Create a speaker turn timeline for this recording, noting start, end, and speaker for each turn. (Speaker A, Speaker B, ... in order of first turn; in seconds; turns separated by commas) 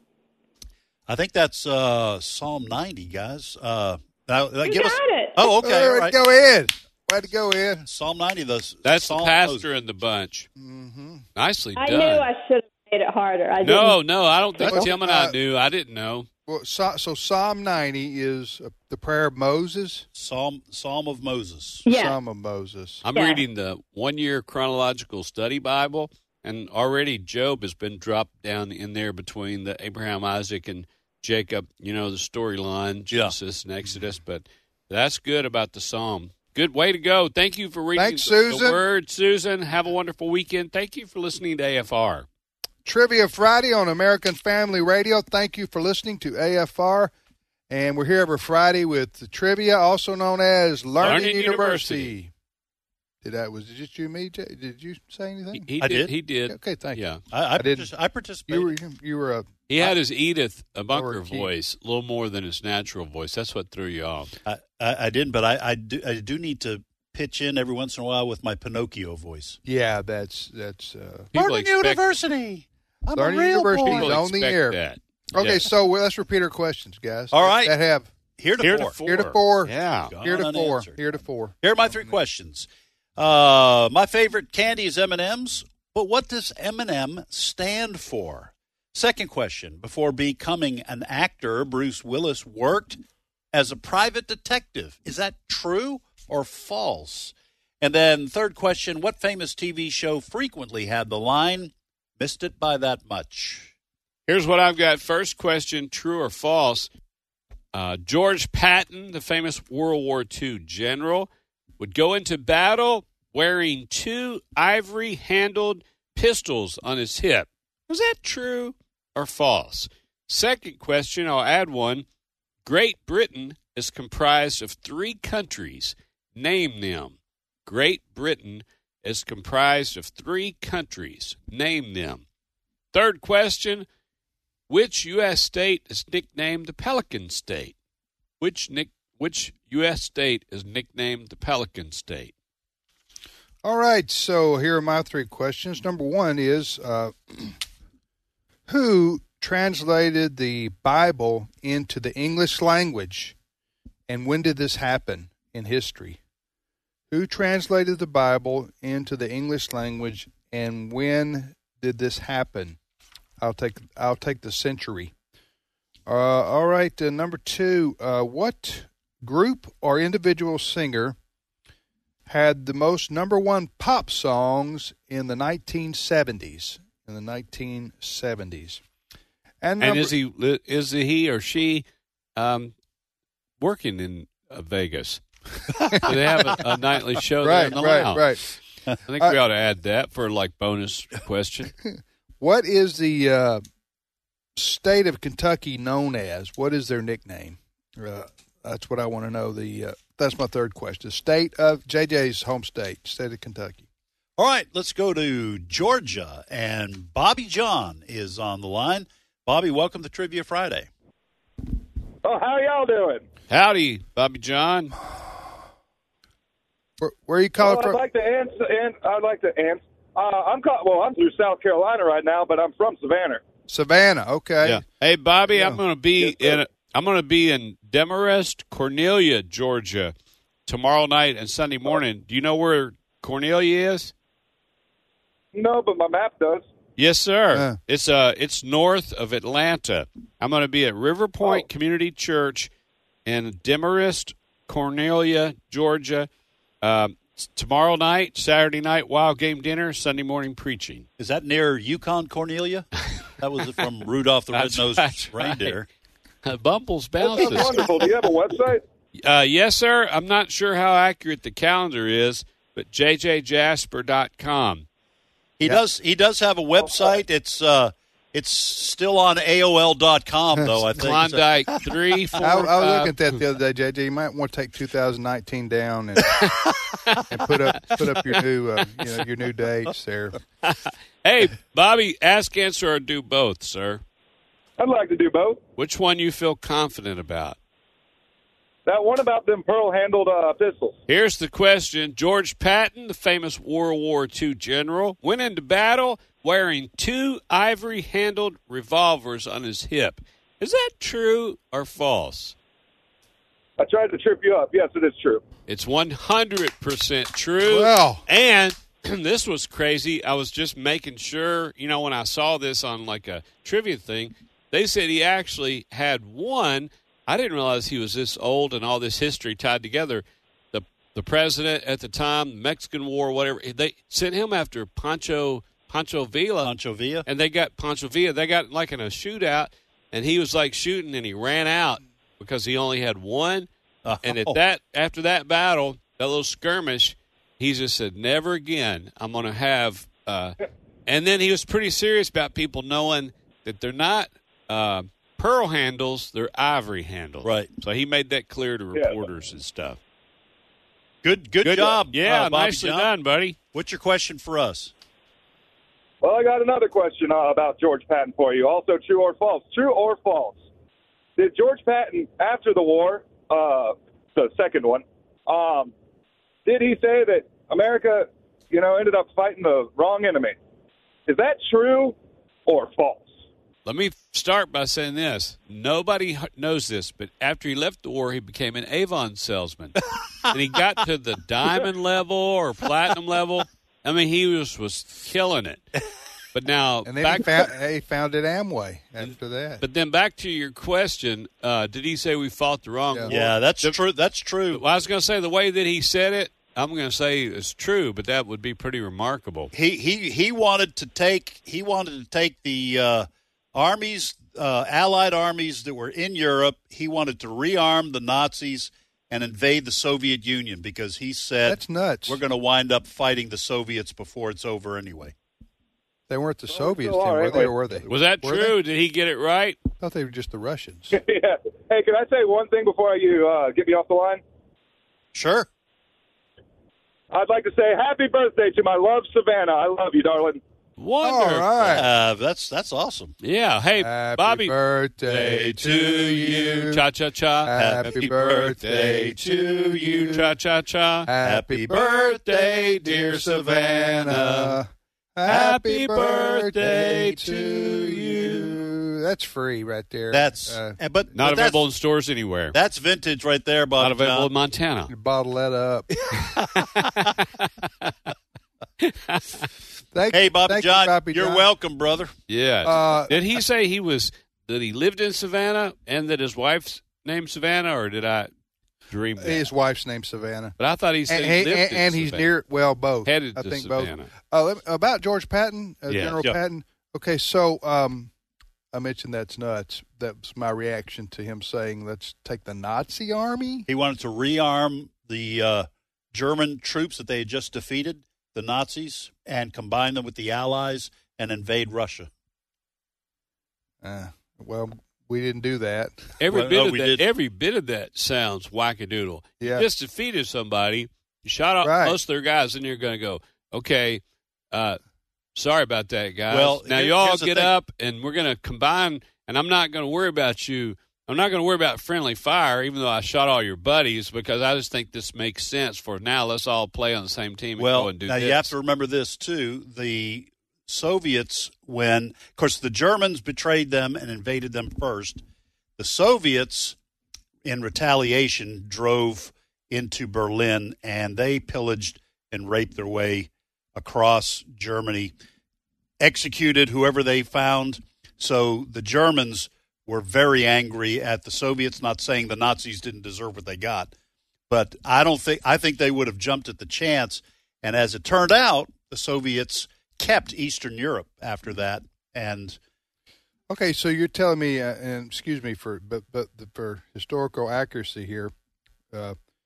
Speaker A: 1.1-6.2, Speaker B: 4.6-5.5, Speaker C: 5.6-7.8, Speaker A: 7.8-9.7, Speaker D: 8.8-10.5, Speaker C: 10.6-11.2, Speaker D: 11.4-12.3, Speaker B: 11.8-14.0, Speaker D: 13.6-16.3, Speaker C: 14.6-15.3, Speaker C: 16.5-20.1, Speaker A: 20.1-21.9, Speaker B: 21.9-22.2, Speaker C: 21.9-23.0, Speaker D: 23.0-42.3, Speaker B: 23.1-23.4, Speaker C: 38.0-38.8, Speaker C: 42.9-47.1, Speaker C: 47.7-52.3, Speaker D: 51.0-52.1, Speaker C: 53.2-55.7, Speaker D: 55.5-57.2, Speaker A: 55.8-56.1, Speaker C: 56.5-57.0, Speaker A: 57.3-58.7, Speaker C: 57.6-57.9, Speaker C: 58.5-59.6, Speaker D: 59.7-64.3, Speaker C: 60.9-61.5, Speaker A: 64.5-69.6, Speaker C: 69.7-71.3, Speaker D: 71.3-72.0, Speaker A: 71.3-74.1, Speaker C: 73.1-74.8, Speaker D: 73.9-75.6, Speaker C: 75.3-78.1, Speaker A: 77.3-77.7, Speaker A: 78.4-79.0, Speaker D: 78.6-80.1, Speaker C: 79.0-82.2, Speaker A: 80.1-81.0, Speaker A: 81.6-93.0, Speaker A: 93.5-103.7, Speaker D: 104.3-106.9, Speaker D: 107.7-122.0, Speaker D: 122.7-132.2, Speaker D: 132.9-133.9, Speaker D: 134.7-137.8, Speaker D: 138.4-142.3, Speaker C: 143.6-147.6, Speaker C: 148.7-153.4, Speaker C: 154.1-156.2, Speaker C: 157.1-162.8, Speaker C: 163.4-165.1, Speaker C: 166.1-171.2, Speaker C: 172.3-178.8, Speaker C: 179.6-180.1, Speaker D: 179.8-181.8, Speaker D: 182.4-182.7, Speaker D: 183.6-185.2, Speaker A: 185.8-186.6, Speaker D: 186.0-188.2, Speaker C: 187.4-188.4, Speaker A: 187.6-188.1, Speaker D: 189.1-191.7, Speaker C: 191.8-193.6, Speaker C: 194.6-203.8, Speaker A: 204.4-210.9, Speaker E: 212.2-213.2, Speaker D: 213.5-214.9, Speaker C: 217.0-218.0, Speaker E: 217.6-223.4, Speaker C: 223.7-224.8, Speaker D: 224.6-230.1, Speaker C: 225.5-225.8, Speaker E: 226.2-226.6, Speaker D: 230.7-234.1, Speaker E: 235.5-236.7, Speaker D: 237.0-242.7, Speaker C: 237.5-237.8, Speaker D: 243.3-246.3, Speaker D: 246.8-251.1, Speaker A: 251.2-252.9, Speaker A: 253.4-255.9, Speaker D: 254.5-255.8, Speaker D: 256.4-257.9, Speaker E: 257.2-258.8, Speaker D: 259.2-264.9, Speaker A: 265.6-271.9, Speaker E: 266.8-267.1, Speaker D: 270.9-273.2, Speaker C: 272.4-276.5, Speaker D: 276.3-277.2, Speaker C: 277.3-280.3, Speaker D: 280.6-284.0, Speaker E: 284.8-285.6, Speaker D: 285.8-287.6, Speaker E: 288.9-290.9, Speaker D: 291.1-302.6, Speaker E: 303.8-305.4, Speaker D: 305.7-326.7, Speaker C: 307.6-308.2, Speaker A: 326.6-327.2, Speaker D: 327.2-333.7, Speaker A: 334.0-334.6, Speaker D: 334.2-340.6, Speaker D: 341.1-350.0, Speaker A: 347.4-347.7, Speaker E: 348.9-349.2, Speaker A: 351.2-353.1, Speaker D: 351.6-353.6, Speaker A: 353.7-354.9, Speaker E: 356.2-360.6, Speaker E: 361.4-365.9, Speaker E: 366.7-370.6, Speaker E: 371.3-372.1, Speaker E: 372.7-373.3, Speaker D: 373.9-380.0, Speaker D: 380.5-385.9, Speaker D: 386.5-387.7, Speaker C: 387.1-389.8, Speaker D: 389.8-394.0, Speaker A: 393.3-394.8, Speaker D: 394.7-399.7, Speaker A: 399.7-415.3, Speaker C: 411.6-412.4, Speaker C: 416.3-418.8, Speaker E: 416.7-417.8, Speaker D: 418.1-419.8, Speaker C: 420.0-421.2, Speaker E: 421.1-424.4, Speaker A: 425.3-425.7, Speaker E: 427.3-430.6, Speaker D: 431.0-432.1, Speaker C: 431.2-432.1, Speaker A: 431.9-433.4, Speaker D: 433.4-434.7, Speaker C: 434.0-437.0, Speaker D: 435.3-438.3, Speaker C: 437.6-440.4, Speaker A: 437.8-439.4, Speaker D: 438.8-441.3, Speaker C: 441.3-451.0, Speaker A: 441.4-443.0, Speaker D: 441.9-444.8, Speaker D: 445.5-448.7, Speaker A: 450.3-451.8, Speaker D: 451.4-452.8, Speaker A: 452.7-454.5, Speaker D: 454.0-455.1, Speaker C: 455.1-456.1, Speaker A: 456.3-457.3, Speaker D: 457.6-458.1, Speaker D: 459.0-459.7, Speaker C: 460.1-461.7, Speaker A: 460.3-462.3, Speaker D: 462.5-468.5, Speaker C: 462.8-463.4, Speaker D: 469.1-469.7, Speaker C: 469.4-470.8, Speaker D: 470.8-472.5, Speaker C: 471.3-478.3, Speaker D: 473.2-474.3, Speaker D: 476.1-476.4, Speaker C: 478.9-483.9, Speaker A: 483.9-492.3, Speaker C: 494.0-496.2, Speaker D: 496.4-505.0, Speaker A: 496.5-497.2, Speaker C: 499.6-499.9, Speaker C: 501.8-502.2, Speaker D: 505.6-518.7, Speaker A: 506.5-507.7, Speaker A: 517.8-525.4, Speaker A: 526.0-527.0, Speaker A: 527.6-535.3, Speaker A: 536.2-544.1, Speaker A: 544.7-552.8, Speaker C: 553.7-558.5, Speaker C: 559.1-559.4